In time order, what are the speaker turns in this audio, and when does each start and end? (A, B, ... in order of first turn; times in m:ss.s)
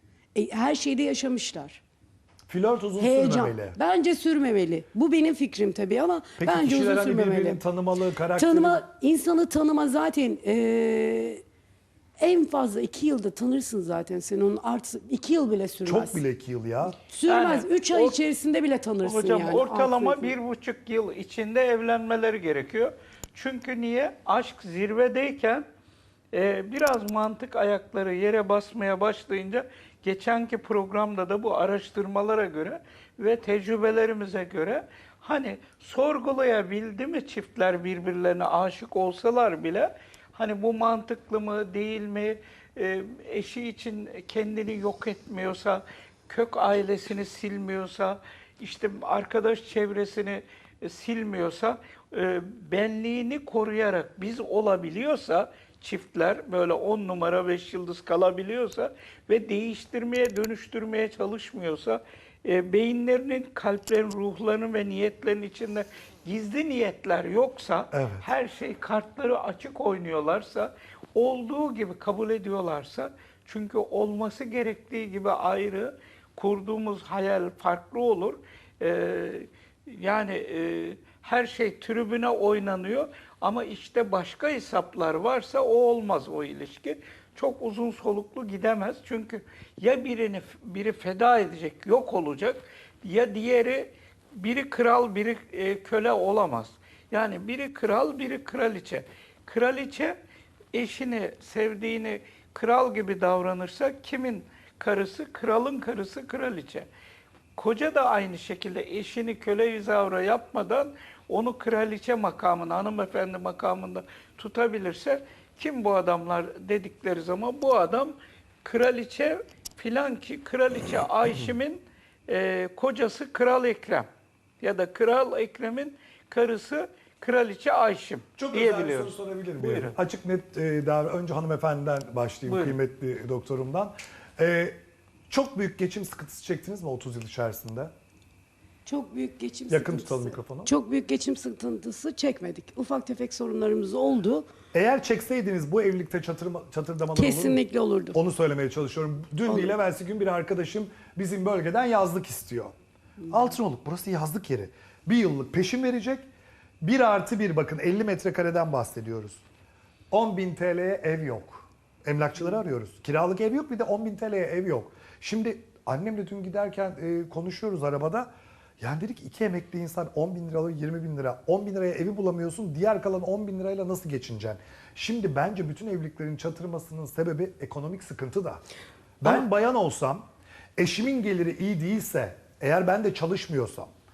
0:00.3-0:01.8 A
0:02.5-0:03.8 B
0:03.0-0:07.6 A
0:06.4-0:08.8 B
0:08.4-0:11.4 A
0:12.2-0:16.2 A
0:15.8-0:17.0 B
0:17.0-0:20.3 A
0:17.2-0:18.2 C
0:19.0-0:25.6 C
0:26.3-1:40.2 C
1:07.9-1:08.3 B
1:40.7-1:46.9 C
1:47.5-2:04.1 C
2:04.6-2:09.9 C
2:08.4-2:14.8 B
2:12.5-2:12.8 C
2:15.3-2:17.9 B
2:18.8-2:24.5 A
2:19.7-2:20.7 B
2:24.7-2:27.6 B
2:27.1-2:28.2 A
2:28.1-2:32.7 B
2:33.3-2:36.2 B
2:36.8-2:39.4 B
2:40.1-2:48.3 B
2:48.8-2:58.6 B
2:59.2-3:00.2 B
3:00.8-3:03.9 B